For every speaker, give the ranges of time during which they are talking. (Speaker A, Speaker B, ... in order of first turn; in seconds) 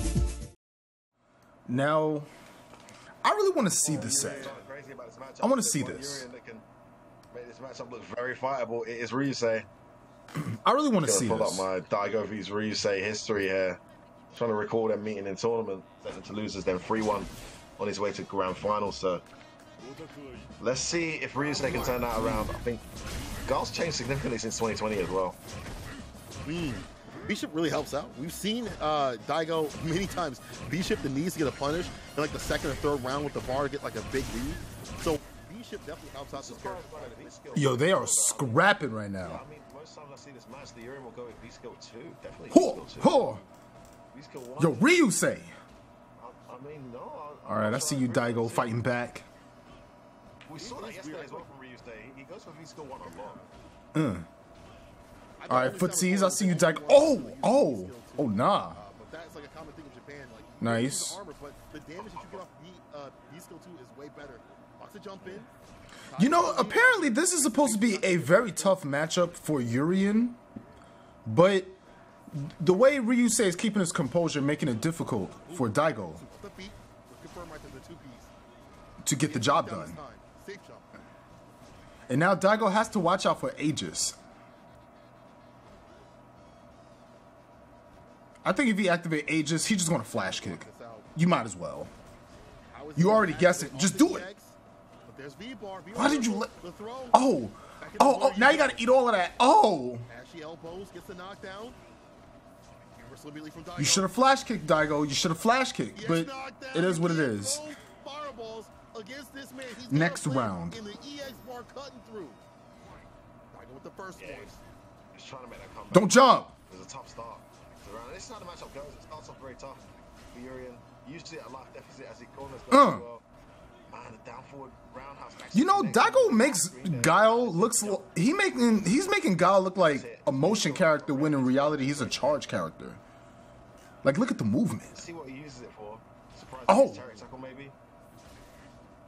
Speaker A: 1.7-2.3, 3.2-4.5, 5.4-6.2, 10.3-11.7, 37.5-39.4, 42.5-43.4, 44.6-45.5, 47.5-49.2, 53.9-54.3, 55.5-58.8, 60.6-61.2, 66.2-70.4, 71.2-71.7, 72.3-76.2, 79.0-80.0, 82.1-84.2, 88.4-91.9, 93.0-94.3, 95.9-96.5, 97.1-100.1, 103.8-107.6, 109.9-110.8, 115.9-116.5, 122.7-123.0, 125.5-133.0, 134.0-135.0, 136.7-137.0
Speaker B: 3.8-4.6, 21.3-22.5, 26.4-37.6, 50.6-51.5, 53.0-53.5, 55.4-65.5, 66.1-68.8, 75.4-78.3, 79.2-80.8, 90.1-91.1, 92.7-97.2, 97.8-98.9, 100.1-101.8, 103.0-104.1, 105.9-112.4, 113.5-114.6
Speaker C: 3.9-6.6, 7.3-9.7, 11.0-13.8, 14.3-19.2, 20.6-22.8, 23.4-25.4, 36.3-38.6, 39.2-43.2, 44.1-44.9, 46.2-48.8, 50.5-53.4, 62.0-62.5, 114.2-114.6, 115.1-123.2, 123.9-128.1, 129.8-132.4, 134.9-137.7